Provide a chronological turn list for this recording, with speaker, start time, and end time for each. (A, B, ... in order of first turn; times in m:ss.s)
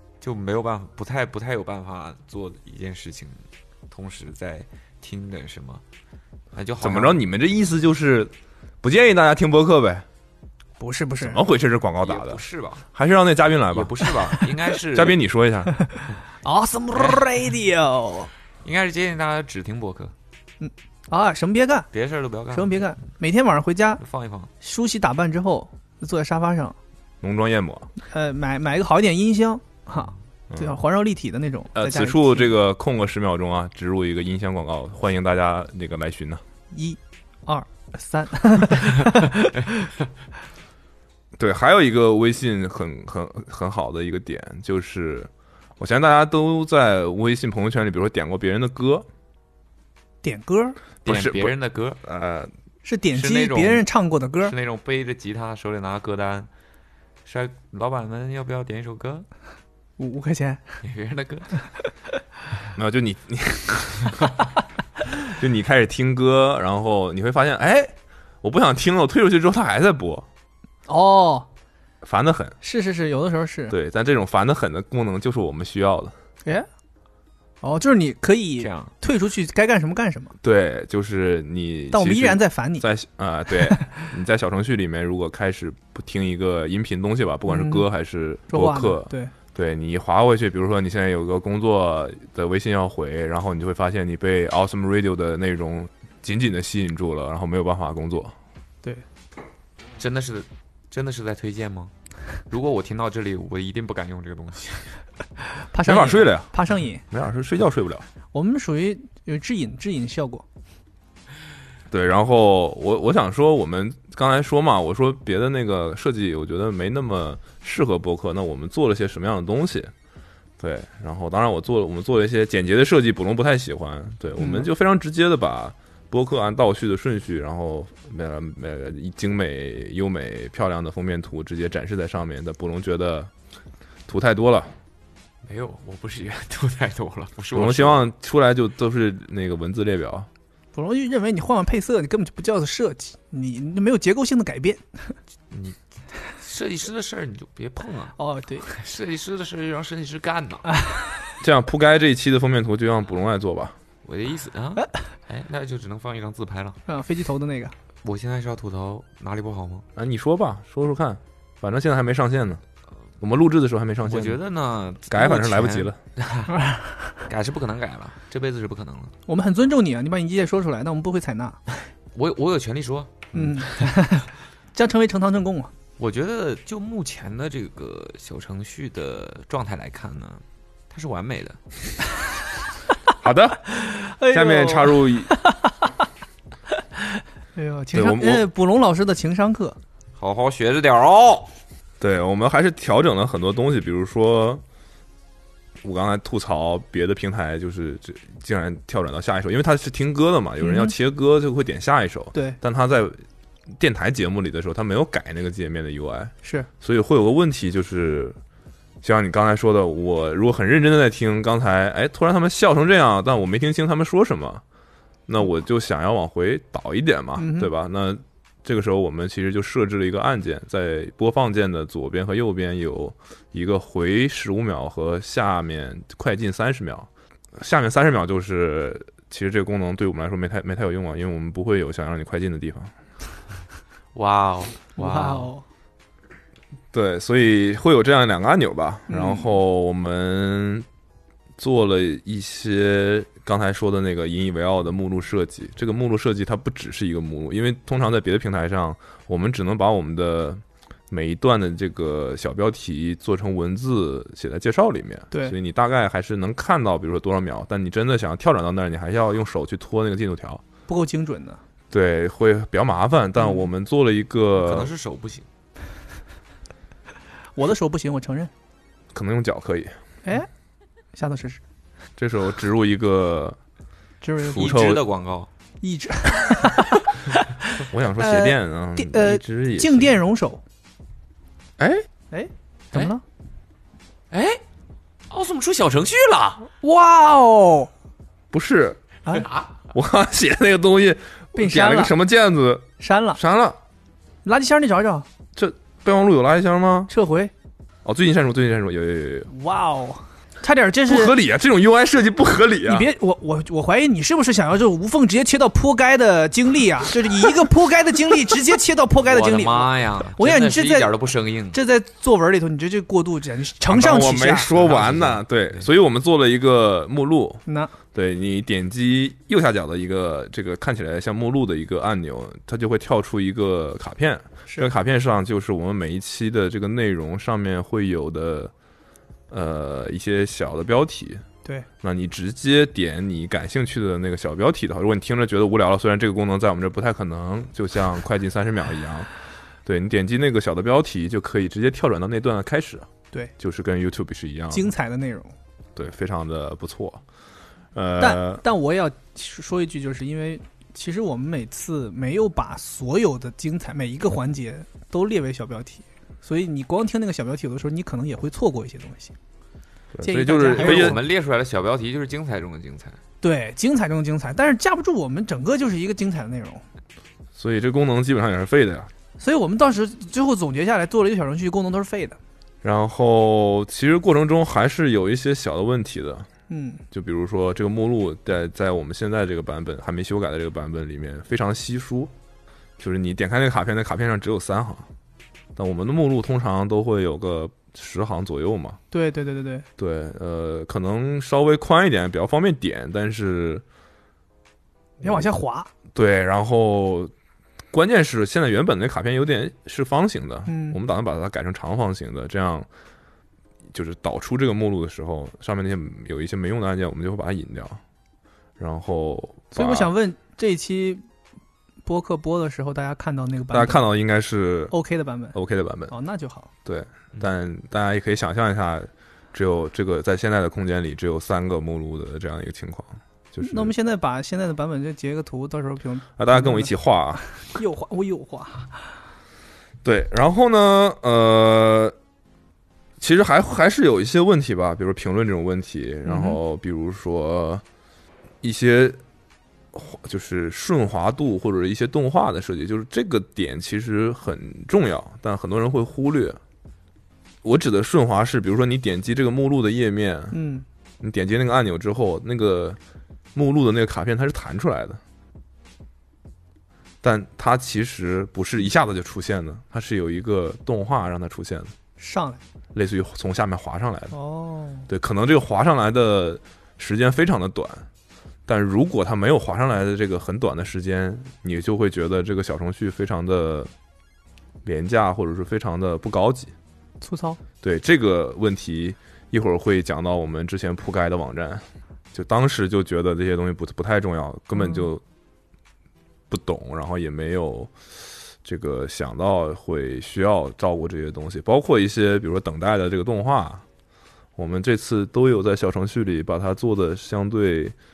0:00.2-0:05.8 A
0:06.5-0:07.2 A
0:06.8-0:10.0 B
0:10.8-0:11.4 C
0:11.2-0:12.4 B
0:12.0-0:12.8 A
0:12.9-0:14.0 B
0:13.7-0:15.2 A
0:14.9-0:15.7 B
0:16.4-0:18.3 C
0:16.9-0:17.2 A
0:18.6-0:20.1 A
0:20.6-0:21.9 C
0:21.9-0:22.9 A
0:22.5-0:24.0 C
0:24.0-0:24.5 A
0:24.6-0:26.8 C
0:27.2-0:27.9 B
0:28.0-0:32.5 C
0:30.5-0:30.8 B
0:31.7-0:36.4 B
0:36.7-0:39.9 C
0:41.4-0:49.1 B
0:50.2-0:50.8 C
0:51.0-0:52.0 A
0:51.0-0:52.5 B
0:52.8-0:54.5 C
0:53.1-0:53.8 A
0:54.4-0:56.5 A
0:57.2-0:59.3 A
1:00.0-1:00.8 C
1:00.8-1:01.5 A
1:02.7-1:04.2 B
1:05.1-1:10.2 B
1:10.9-1:11.5 C
1:12.0-1:12.6 B
1:12.6-1:13.8 C
1:13.7-1:16.1 B
1:17.6-1:20.3 C
1:18.6-1:18.9 A
1:20.4-1:38.3 B
1:21.9-1:22.8 C
1:27.5-1:27.8 C
1:28.5-1:29.3 C
1:40.0-1:41.9 A
1:42.4-1:45.0 A
1:45.6-1:47.0 C
1:45.8-1:46.5 B
1:47.1-1:48.0 B
1:48.3-1:50.4 C
1:51.9-1:59.9 B
2:00.6-2:13.3 B
2:04.4-2:04.7 C
2:14.1-2:14.7 B
2:15.4-2:18.0 A
2:17.5-2:20.3 B
2:20.7-2:25.1 C
2:25.5-2:25.8 A
2:26.3-2:30.7 A
2:28.2-2:28.6 C
2:31.4-2:33.8 B
2:34.0-2:36.8 A
2:36.9-2:37.7 C
2:38.0-2:39.8 A
2:40.0-2:42.6 B
2:43.2-2:44.4 B
2:44.0-2:46.5 A
2:45.1-2:46.0 B
2:46.5-2:47.0 C
2:47.2-2:49.1 A
2:49.3-2:51.6 C
2:52.1-2:53.9 A
2:53.3-2:55.7 C
2:56.0-3:01.6 A
3:03.2-3:05.3 B
3:03.8-3:05.7 C
3:07.5-3:09.8 C
3:07.9-3:08.4 B
3:10.2-3:11.5 A
3:12.0-3:14.6 B
3:15.8-3:28.4 B
3:20.6-3:20.9 C
3:26.4-3:26.7 C
3:29.0-3:34.6 B
3:35.3-3:52.9 B
3:37.4-3:37.7 C
3:54.1-3:55.5 A
3:55.0-3:55.6 C
3:56.9-4:00.8 B
3:59.1-3:59.5 C
4:01.6-4:20.6 B
4:20.9-4:21.6 C
4:21.9-4:24.9 B
4:24.6-4:25.4 A
4:27.6-4:28.5 C
4:29.1-4:29.9 B
4:31.1-4:31.6 C
4:32.2-4:33.6 B
4:34.2-4:34.7 C
4:34.4-4:35.0 B
4:34.5-4:35.5 A
4:35.8-4:40.6 C
4:37.9-4:40.1 B
4:41.8-4:42.1 B
4:42.3-4:43.2 C
4:44.3-4:44.6 A
4:45.3-4:46.7 A
4:46.8-4:47.9 C
4:48.5-4:49.0 B
4:49.4-4:49.7 A
4:49.9-4:53.8 B
4:51.6-4:52.1 C
4:53.0-4:53.4 C
4:54.4-4:55.3 C
4:55.6-4:57.1 B
4:57.1-4:57.5 C
4:58.0-4:59.5 B
4:59.5-5:01.3 C
5:01.1-5:03.1 B
5:02.8-5:11.1 C
5:09.2-5:11.8 A
5:11.7-5:14.7 C
5:13.9-5:17.6 B
5:14.7-5:15.8 A
5:17.7-5:17.9 C
5:18.1-5:28.7 B
5:29.5-5:31.4 B
5:32.0-5:39.3 B
5:39.8-5:43.1 B
5:43.6-5:44.9 B
5:44.7-5:45.5 C
5:45.9-5:47.2 B
5:47.9-5:48.6 B
5:48.2-5:59.3 C
6:00.1-6:01.2 B
6:00.2-6:01.2 C
6:00.7-6:03.2 A
6:03.4-6:06.8 C
6:07.5-6:09.1 B
6:09.4-6:12.4 C
6:12.8-6:16.5 B
6:16.7-6:17.0 C
6:17.1-6:22.3 B
6:23.0-6:25.1 B
6:25.8-6:29.0 B
6:29.1-6:29.8 C
6:30.0-6:33.8 B
6:35.2-6:35.9 C
6:36.1-6:37.3 B
6:37.9-6:42.9 B
6:40.7-6:41.0 C
6:43.9-6:48.0 B
6:48.8-6:50.1 B
6:49.7-6:51.2 C
6:52.0-6:54.0 C
6:53.7-6:54.9 B
6:54.9-6:55.6 C
6:55.5-6:56.1 B
6:56.1-6:56.7 C
6:56.8-7:03.9 B
7:03.6-7:06.9 C
7:06.4-7:07.4 B
7:07.6-7:09.2 C
7:10.0-7:12.1 B
7:13.2-7:17.8 B
7:16.2-7:16.6 C
7:18.6-7:19.2 B
7:19.9-7:26.6 B
7:27.6-7:30.6 B
7:30.5-7:30.8 C
7:31.2-7:33.0 B
7:33.5-7:35.2 B
7:37.2-7:41.9 B
7:42.2-7:42.6 C
7:42.9-7:44.3 B
7:44.3-7:45.1 C
7:45.1-7:48.0 B
7:48.7-7:53.9 B
7:54.8-7:56.7 B
7:57.2-7:57.6 C
7:57.8-8:05.2 B
8:04.8-8:05.0 C
8:06.5-8:07.9 B
8:08.6-8:13.8 B
8:14.6-8:17.9 B